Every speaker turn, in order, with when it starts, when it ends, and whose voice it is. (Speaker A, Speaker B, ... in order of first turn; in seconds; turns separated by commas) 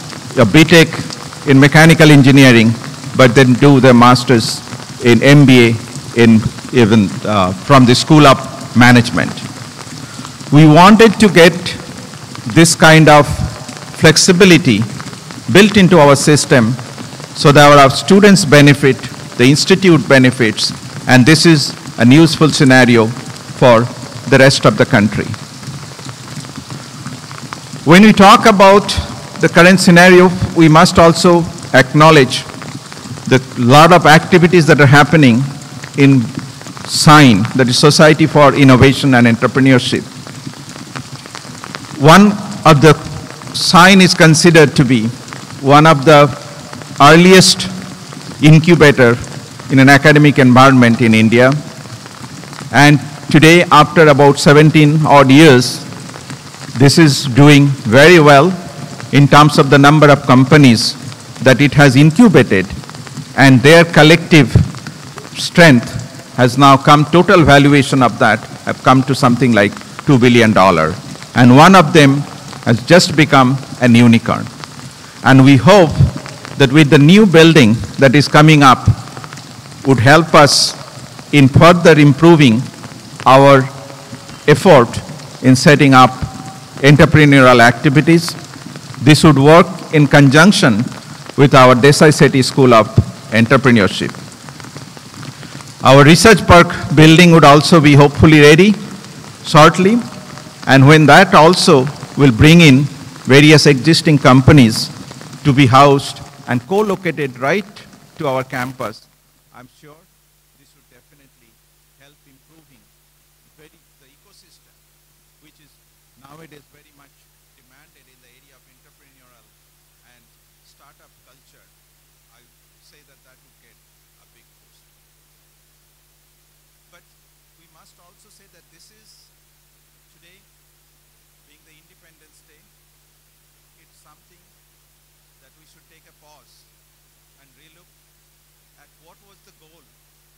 Speaker A: 0.3-9.4, Speaker A: 10.5-11.8, Speaker A: 12.5-14.9, Speaker A: 15.5-16.8, Speaker A: 17.4-25.4, Speaker A: 27.9-32.5, Speaker A: 33.3-36.3, Speaker A: 36.9-40.1, Speaker A: 42.0-46.4, Speaker A: 47.0-47.7, Speaker A: 48.4-51.6, Speaker A: 52.7-55.8, Speaker A: 56.7-58.6, Speaker A: 59.1-62.8, Speaker A: 63.4-64.7, Speaker A: 65.3-74.5, Speaker A: 75.2-79.0, Speaker A: 79.8-80.8, Speaker A: 81.3-82.7, Speaker A: 83.2-83.7, Speaker A: 84.5-88.4, Speaker A: 89.0-94.2, Speaker A: 95.8-98.8, Speaker A: 99.4-100.0, Speaker A: 100.7-104.9, Speaker A: 105.4-112.9, Speaker A: 113.6-114.8, Speaker A: 115.4-119.5, Speaker A: 120.0-121.7, Speaker A: 122.3-124.9, Speaker A: 126.9-129.3, Speaker A: 130.1-130.5, Speaker A: 131.4-132.7, Speaker A: 133.8-134.5, Speaker A: 135.4-136.7, Speaker A: 137.4-137.9, Speaker A: 138.8-139.9